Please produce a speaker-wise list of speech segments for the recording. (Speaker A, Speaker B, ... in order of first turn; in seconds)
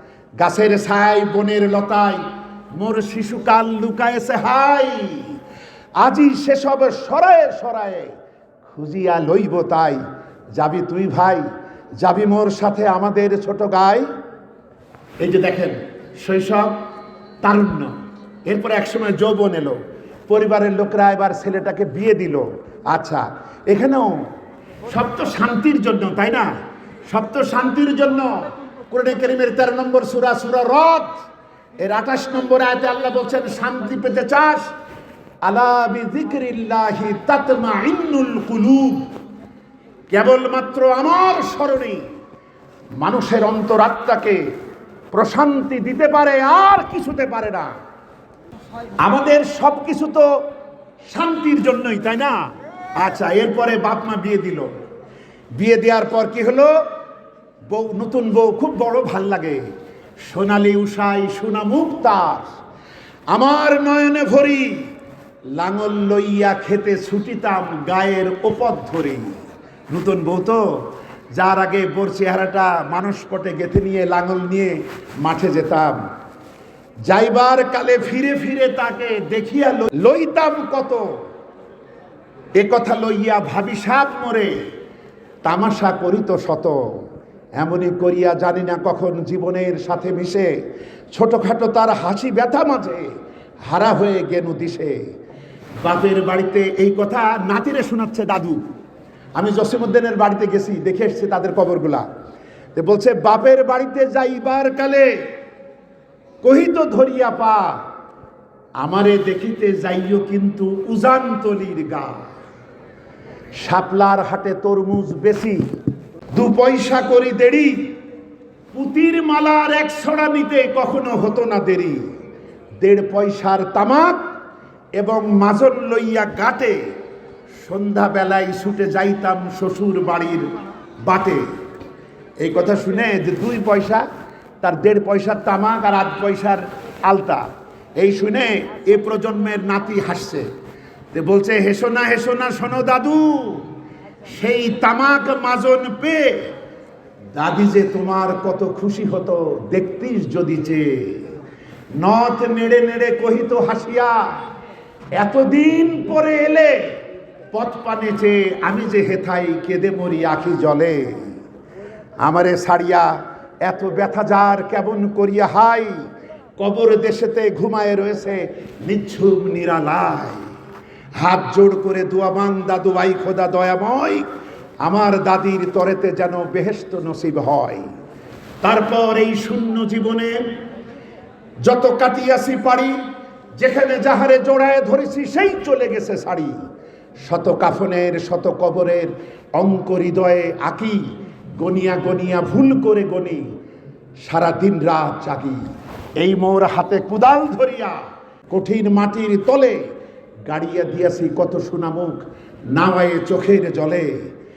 Speaker A: 0.4-2.2, 2.8-5.4, 6.0-8.1, 8.7-10.0, 10.6-11.4, 12.0-14.1, 15.2-16.9, 17.4-17.9, 18.5-24.2, 24.9-26.5, 27.1-31.2, 31.8-34.7, 35.5-39.1, 40.1-42.0, 43.0-44.4, 45.1-47.8, 49.0-50.3, 51.1-52.4, 53.0-54.7, 55.6-56.7, 57.7-59.6, 60.2-62.5, 63.3-64.8, 65.6-69.3, 69.9-70.6, 71.3-76.0, 77.1-81.0, 82.6-84.5, 85.4-86.8, 87.6-90.5, 91.1-93.1, 93.7-95.0, 95.8-98.6, 99.4-102.1, 102.8-105.1, 106.4-107.8, 108.8-112.2, 113.6-115.6, 116.3-117.9, 118.7-122.0, 122.8-124.3, 125.0-126.8, 127.6-130.4, 131.1-131.4, 132.4-134.1, 134.6-140.5, 141.1-143.7, 144.3-146.5, 147.3-151.2, 152.0-154.3, 155.2-156.9, 157.5-161.3, 162.2-163.1, 163.7-165.9, 166.6-170.4, 171.2-174.3, 174.8-177.8, 178.6-180.5, 181.6-183.0, 183.6-186.6, 187.2-191.0, 191.6-193.4, 194.2-195.6, 196.2-198.0, 198.5-199.8, 200.5-204.1